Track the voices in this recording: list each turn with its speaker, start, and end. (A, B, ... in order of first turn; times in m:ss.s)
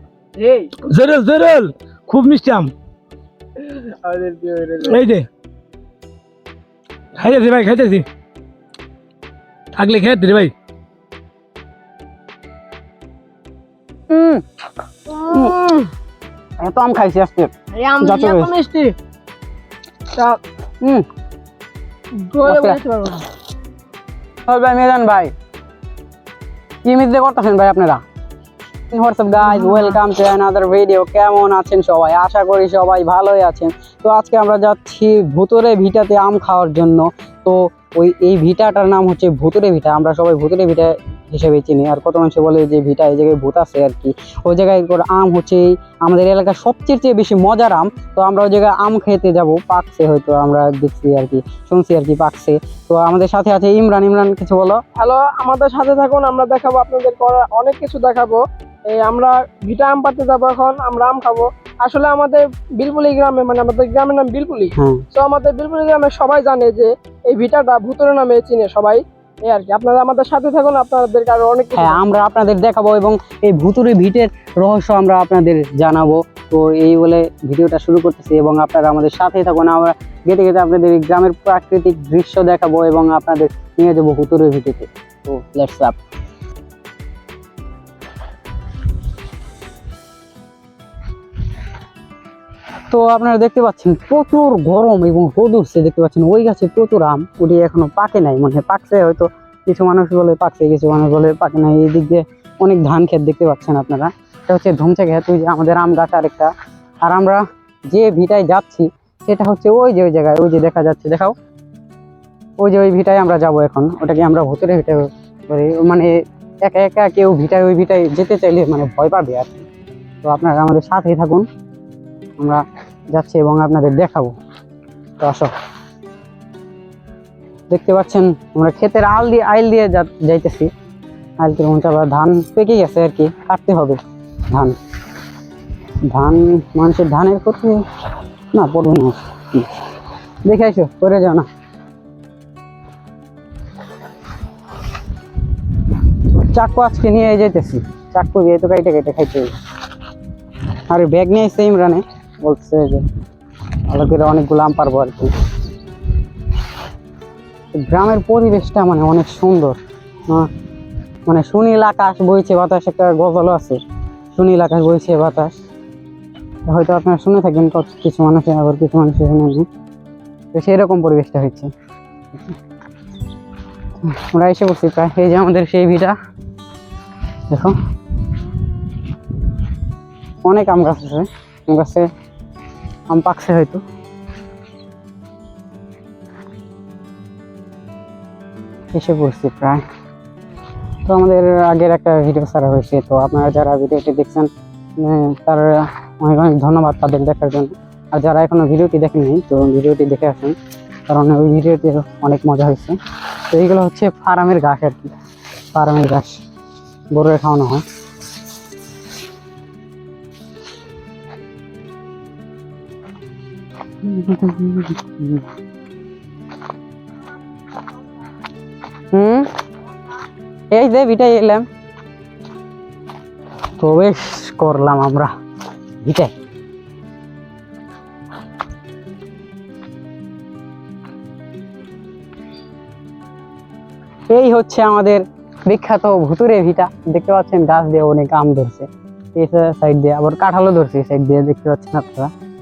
0:00.4-0:00.7 A
0:00.8-0:02.7 B
0:03.6-0:05.0 A
0:04.8-0:05.3 B
0:07.2-0:08.0 B
0:09.7-0:10.5 B
0:14.1-0:14.4 C
0:15.1-0:15.9 A
0:15.3-0:15.6 C
0:16.6-0:17.5 C
0:17.7-0:18.9 A
0:18.0-0:18.5 C
0:20.1-0:20.4 A
0:22.2-0:23.3 A
0:22.4-0:22.8 C
0:24.5-0:25.3 C
0:26.8-0:28.0 C
0:28.9-0:54.8 C
0:29.5-0:29.9 A
0:55.0-1:12.0 A
1:04.8-1:05.0 C
1:11.8-1:26.0 C
1:32.9-1:46.5 C
1:47.0-1:51.3 C
1:52.6-1:59.7 C
2:00.2-2:01.4 C
2:02.4-2:04.3 C
2:05.2-2:05.5 C
2:07.7-2:10.7 C
2:11.4-2:14.8 C
2:16.1-2:17.8 C
2:18.5-2:19.8 C
2:20.4-2:21.5 C
2:26.2-2:29.5 C
2:30.9-2:33.0 C
2:33.7-2:35.3 C
2:37.7-2:39.8 C
2:41.3-2:43.8 C
2:44.3-2:45.5 C
2:46.7-2:49.7 C
2:50.5-2:51.7 C
2:54.0-2:56.1 C
2:57.5-2:57.8 C
3:00.4-3:02.1 C
3:03.1-3:03.8 C
3:08.9-3:09.8 C
3:11.1-3:14.5 C
3:15.0-3:20.5 C
3:21.1-3:23.0 C
3:23.5-3:25.1 C
3:25.8-3:26.4 C
3:27.1-3:27.8 C
3:34.0-3:35.4 C
3:39.1-3:39.5 C
3:40.7-3:41.7 C
3:43.8-3:45.3 C
3:46.0-3:46.3 C
3:54.3-4:02.3 C